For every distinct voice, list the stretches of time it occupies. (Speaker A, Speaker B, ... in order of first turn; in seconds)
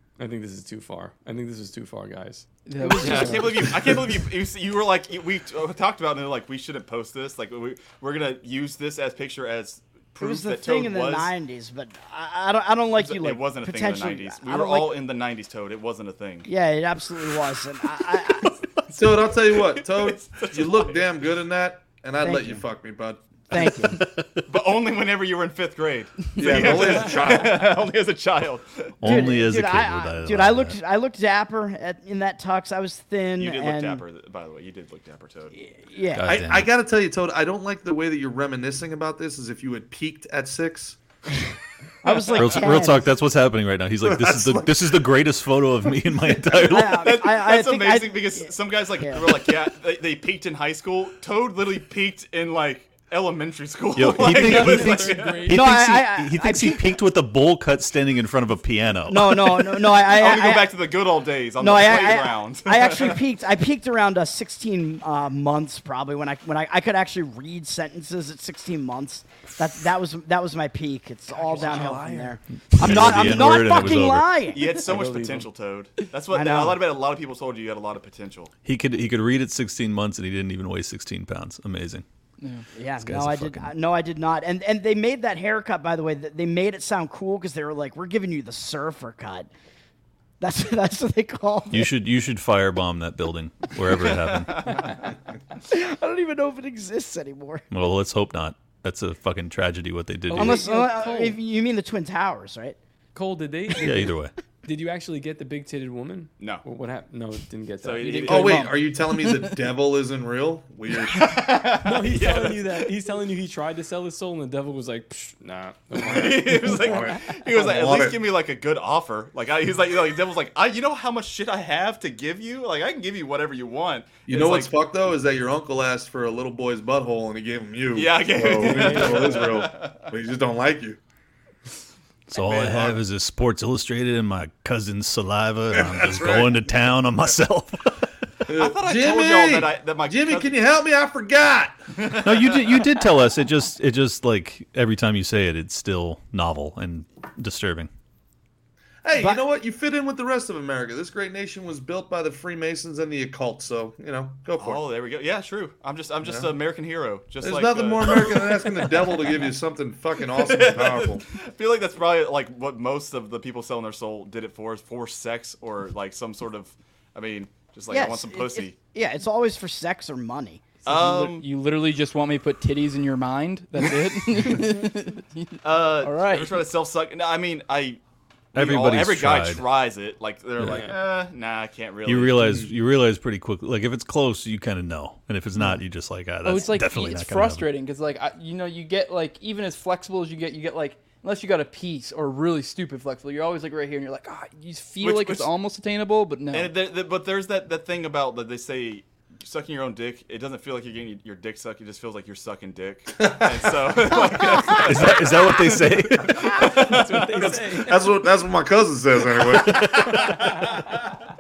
Speaker A: 0.2-2.5, 3.0-3.4, 54.2-55.6, 71.5-72.2, 74.8-75.5, 100.3-101.3, 103.1-108.4, 111.8-117.0, 206.6-208.2
Speaker B: 2.7-3.5, 82.4-82.6, 108.0-109.5, 170.8-176.6, 186.4-196.7
Speaker C: 2.8-3.4, 10.2-14.9, 16.4-18.5, 22.2-22.6, 23.5-24.0, 29.0-34.0, 35.5-36.4, 42.0-43.1, 46.4-49.5, 55.5-57.0, 59.1-60.8, 61.6-74.7, 76.3-76.8, 82.7-89.5, 90.4-91.9, 95.6-97.7, 100.3-102.8, 149.2-149.4, 167.9-170.6, 204.3-204.9
Speaker D: 3.0-11.3, 13.0-16.5, 19.0-21.1, 24.5-29.3, 33.4-35.5, 46.7-55.5, 59.6-63.2, 74.5-78.5, 93.9-95.0, 106.4-106.6, 107.8-108.7, 111.1-112.7, 116.0-124.7, 127.9-130.1, 132.3-133.0, 138.5-140.6, 142.0-143.0, 154.6-159.4, 160.3-168.7, 170.8-171.4, 175.6-178.0, 178.5-182.4, 195.0-195.5, 196.5-207.6, 209.8-211.0
Speaker E: 18.9-23.4, 26.4-27.7, 36.2-41.0, 44.0-45.1, 108.3-111.4, 116.6-118.2, 124.3-131.0, 132.6-132.9, 135.7-136.8, 138.5-141.8, 149.0-154.8, 156.2-156.5, 157.4-161.2, 182.4-182.7, 203.2-204.0, 206.3-206.6, 207.4-210.3
Speaker F: 23.6-24.4, 29.0-30.8, 36.1-36.7, 42.3-47.0, 54.0-59.4, 72.7-74.4, 78.6-82.0, 83.0-83.7, 91.7-94.8, 97.7-100.6, 103.8-104.3, 132.3-138.1, 142.2-147.9, 178.5-179.7, 180.6-180.9, 182.0-187.7, 204.8-206.6, 209.6-209.9